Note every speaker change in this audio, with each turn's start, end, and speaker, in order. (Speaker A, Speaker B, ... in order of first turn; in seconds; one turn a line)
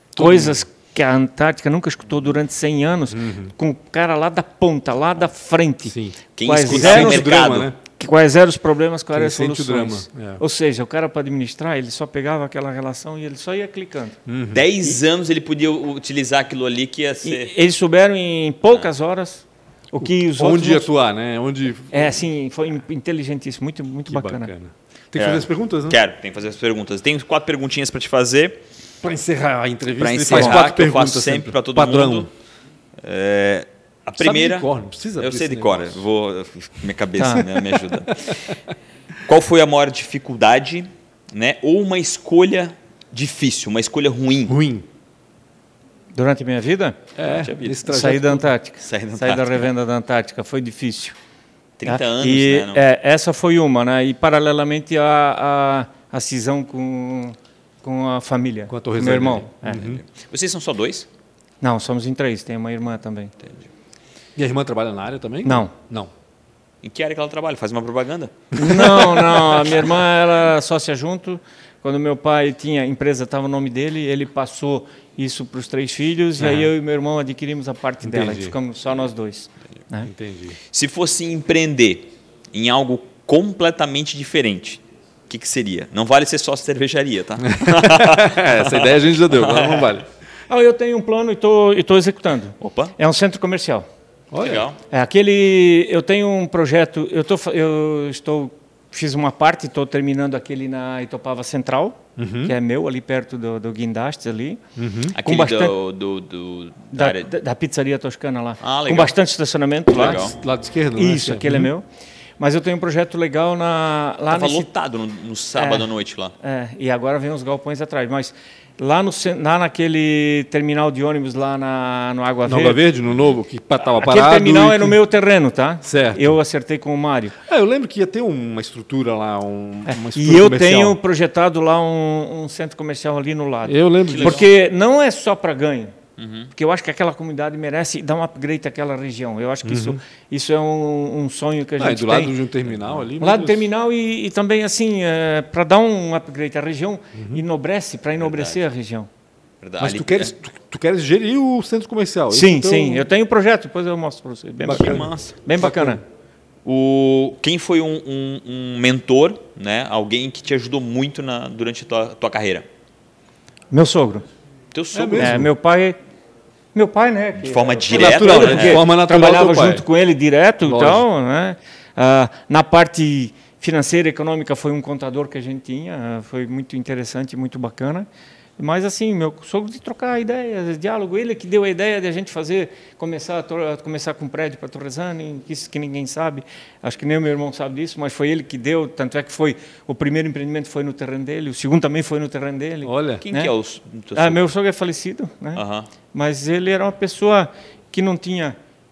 Speaker A: 0.1-0.6
Speaker B: 0.1-7.3
Speaker A: 3.1-3.5
Speaker A: 5.9-7.8
Speaker C: 6.4-7.7
Speaker B: 8.0-14.2
Speaker A: 9.1-10.4
Speaker A: 14.3-14.7
Speaker C: 14.5-17.5
Speaker B: 17.2-20.9
Speaker A: 20.0-22.1
Speaker B: 21.9-24.5
Speaker A: 24.1-26.0
Speaker C: 25.1-28.6
Speaker A: 29.0-32.3
Speaker C: 29.9-32.3
Speaker B: 30.3-30.6
Speaker C: 33.0-38.5
Speaker A: 34.2-36.0
Speaker B: 37.2-37.5
Speaker A: 38.1-38.5
Speaker C: 39.2-44.5
Speaker A: 44.5-44.9
Speaker B: 46.1-47.0
Speaker A: 47.2-48.5
Speaker C: 47.2-47.9
Speaker B: 47.9-51.1
Speaker C: 48.8-49.7
Speaker C: 51.8-52.8
Speaker B: 51.9-59.9
Speaker A: 58.7-60.0
Speaker C: 59.7-61.1
Speaker B: 61.6-63.3
Speaker A: 64.3-66.1
Speaker B: 65.4-65.7
Speaker C: 66.8-68.5
Speaker B: 68.5-80.1
Speaker A: 68.6-69.2
Speaker C: 69.5-69.8
Speaker A: 76.4-76.7
Speaker A: 78.0-78.5
Speaker A: 80.1-80.6
Speaker C: 80.7-90.0
Speaker A: 87.5-90.0
Speaker B: 90.5-93.8
Speaker C: 92.6-92.9
Speaker A: 94.3-94.6
Speaker C: 94.4-94.8
Speaker B: 94.9-104.6
Speaker A: 102.2-102.5
Speaker A: 104.8-105.2
Speaker B: 105.1-105.8
Speaker C: 105.1-107.3
Speaker B: 106.9-110.3
Speaker C: 108.6-109.1
Speaker C: 109.9-110.3
Speaker A: 109.9-111.7
Speaker B: 110.9-111.8
Speaker B: 112.4-114.7
Speaker C: 114.3-116.3
Speaker B: 115.5-122.8
Speaker A: 122.5-125.0
Speaker B: 124.0-127.3
Speaker A: 125.8-126.4
Speaker A: 127.5-131.0
Speaker B: 129.9-135.9
Speaker A: 133.7-134.4
Speaker C: 134.1-134.5
Speaker C: 136.2-136.5
Speaker B: 136.5-142.3
Speaker A: 139.6-140.0
Speaker A: 141.8-143.6
Speaker C: 142.7-143.0
Speaker B: 143.2-149.1
Speaker A: 147.1-147.4
Speaker C: 148.2-148.6
Speaker C: 149.6-150.3
Speaker A: 149.8-153.1
Speaker B: 152.3-156.0
Speaker A: 154.6-156.0
Speaker C: 154.6-155.3
Speaker C: 156.6-162.7
Speaker B: 163.7-164.2
Speaker C: 164.7-165.4
Speaker A: 164.9-165.5
Speaker B: 165.2-165.9
Speaker B: 166.7-193.5
Speaker C: 167.4-168.8
Speaker A: 167.9-169.8
Speaker A: 170.6-171.0
Speaker A: 192.8-193.2
Speaker C: 193.2-194.5
Speaker B: 194.1-195.6
Speaker C: 195.5-195.9
Speaker B: 196.1-198.6